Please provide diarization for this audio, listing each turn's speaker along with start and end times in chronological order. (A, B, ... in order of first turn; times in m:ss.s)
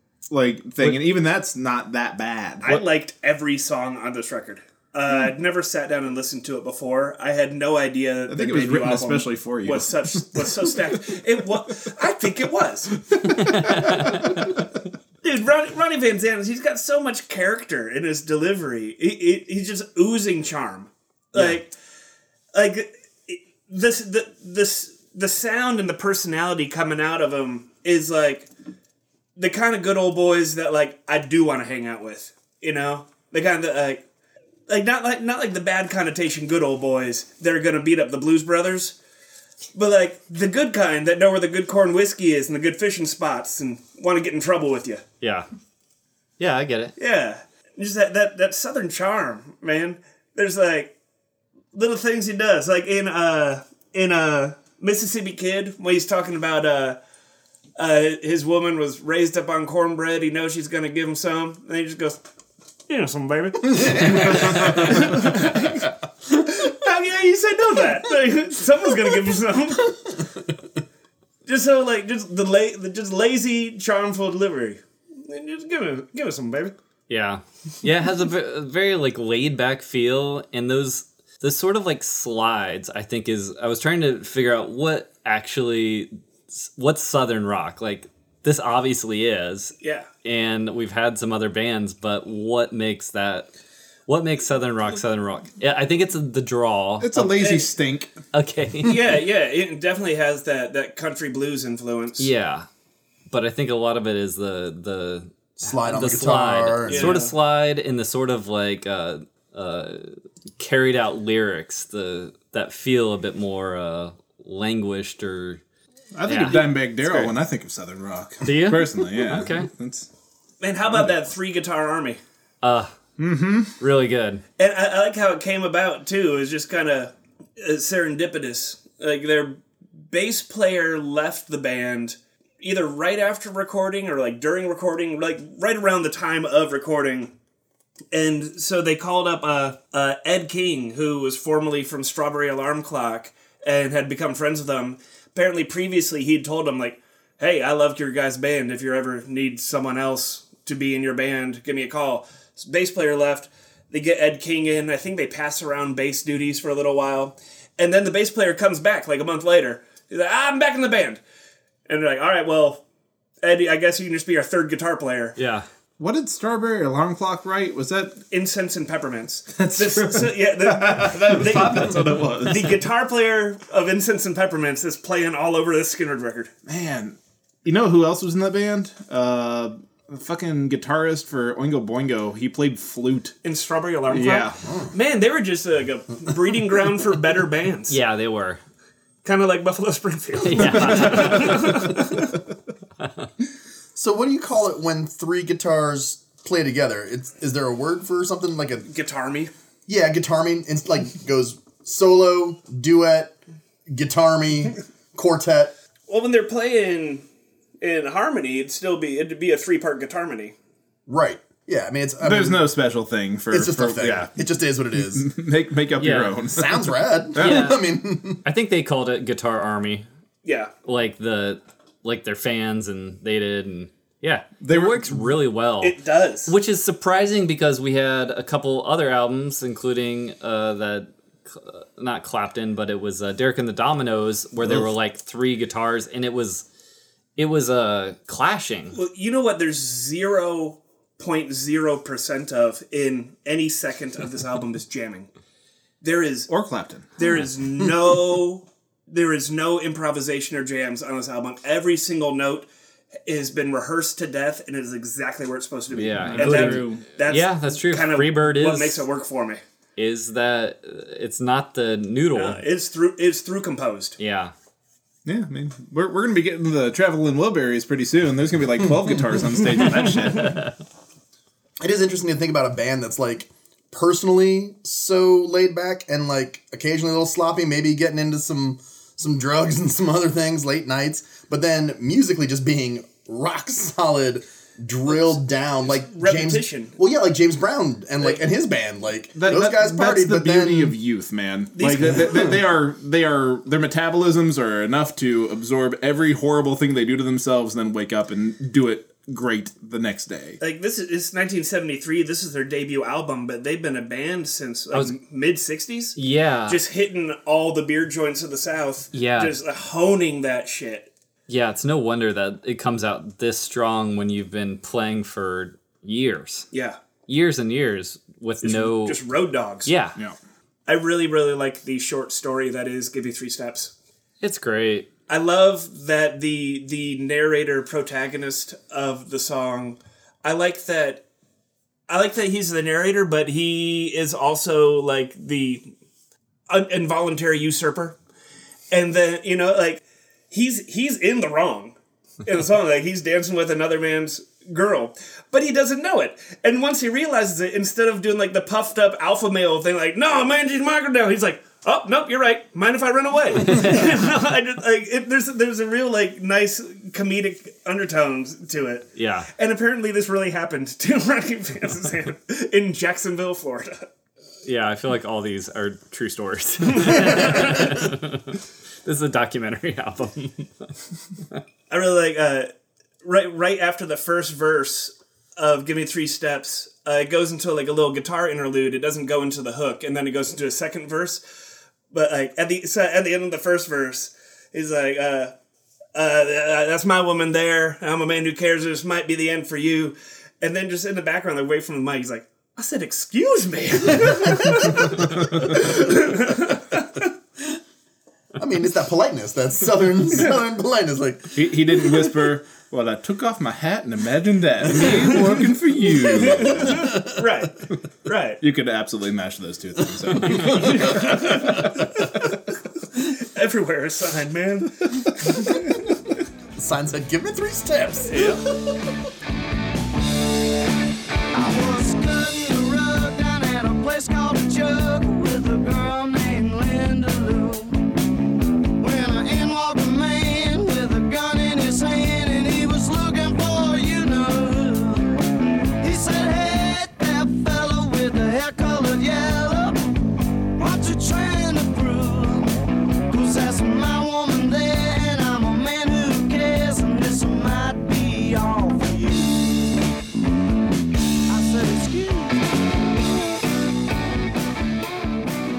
0:00.3-0:02.7 A
0:02.6-0:13.0 B
0:08.3-0:10.7 A
0:13.1-0:13.9 A
0:13.4-0:14.2 C
0:15.2-0:21.7 B
0:22.5-0:28.5 B
0:29.4-0:34.0 B
0:34.7-0:39.0 B
0:39.7-0:45.0 B
0:45.2-0:45.5 C
0:46.4-0:47.0 C
0:47.0-0:50.9 B
0:51.7-0:57.0 B
0:57.8-1:02.2 B
1:02.9-1:10.3 B
1:03.8-1:04.2 D
1:04.2-1:05.0 A
1:11.5-1:16.7 B
1:17.1-1:33.5 C
1:29.8-1:30.1 B
1:34.1-1:37.5 C
1:37.0-1:38.1 A
1:37.4-1:37.7 B
1:38.3-1:39.0 C
1:38.8-1:42.3 B
1:42.2-1:42.7 C
1:43.3-1:55.6 C
1:45.6-1:47.2 D
1:46.9-1:47.3 B
1:56.2-2:00.1 A
1:56.3-1:56.7 C
1:56.5-1:57.4 B
1:58.4-1:59.7 C
2:00.6-2:02.2 B
2:02.6-2:03.0 C
2:03.2-2:03.8 A
2:03.8-2:04.4 C
2:04.6-2:09.6 B
2:10.1-2:17.3 B
2:18.1-2:41.2 B
2:41.9-2:42.8 B
2:43.4-2:45.4 B
2:45.4-2:45.7 C
2:46.0-2:48.2 A
2:48.3-2:56.5 B
2:49.6-2:52.8 A
2:56.7-3:03.4 A
3:03.4-3:08.0 B
3:04.1-3:04.6 A
3:04.6-3:04.9 D
3:07.9-3:08.6 C
3:09.2-3:12.4 B
3:10.4-3:12.0 C
3:13.0-3:13.3 C
3:14.0-3:18.9 D
3:18.9-3:19.5 B
3:19.9-3:25.7 D
3:26.1-3:27.2 B
3:27.8-3:30.6 B
3:31.1-3:32.7 D
3:32.2-3:34.3 A
3:33.5-3:35.3 D
3:35.0-3:37.8 A
3:36.0-3:36.4 C
3:36.5-3:38.4 D
3:37.4-3:37.8 C
3:38.4-3:40.1 C
3:40.4-3:40.7 B
3:40.8-3:46.0 C
3:44.6-3:45.3 A
3:45.8-3:46.5 B
3:46.5-3:56.6 C
3:54.6-3:54.9 A
3:57.4-3:59.0 C
3:58.9-4:05.3 B
4:06.0-4:06.5 B
4:06.5-4:07.1 A
4:07.2-4:12.7 B
4:07.2-4:07.5 C
4:13.2-4:19.6 B
4:15.9-4:19.0 C
4:16.2-4:17.1 A
4:20.0-4:22.6 C
4:22.4-4:24.2 B
4:24.2-4:24.5 C
4:25.3-4:30.7 A
4:31.8-4:51.0 D
4:45.1-4:46.9 B
4:49.4-5:00.6 A
4:51.8-4:52.5 B
5:00.6-5:11.1 B
5:06.2-5:06.8 C
5:09.1-5:09.5 C
5:11.5-5:16.7 C
5:16.7-5:17.0 B
5:17.3-5:19.2 C
5:18.6-5:19.9 B
5:19.8-5:20.2 C
5:20.9-5:23.9 B
5:24.4-5:25.1 C
5:25.3-5:31.2 B
5:32.1-5:35.9 B
5:36.7-5:38.2 B
5:38.9-6:04.1 B
5:53.6-5:54.1 C
5:59.2-5:59.5 C
6:04.6-6:10.9 C
6:07.0-6:07.9 B
6:11.9-6:12.7 B
6:13.2-6:21.4 B
6:22.1-6:25.5 B
6:26.2-6:37.3 B
6:38.6-6:41.7 D
6:41.6-6:47.1 A
6:45.0-6:45.6 B
6:46.2-6:48.6 B
6:46.7-6:47.3 D
6:48.6-6:52.1 A
6:50.6-6:51.8 B
6:53.2-6:55.8 B
6:56.8-6:59.1 D
6:58.3-6:58.7 B
7:01.5-7:08.1 E
7:09.0-7:15.4 E
7:16.0-7:20.0 E
7:20.8-7:22.8 E
7:23.3-7:29.9 E
7:31.5-7:32.7 E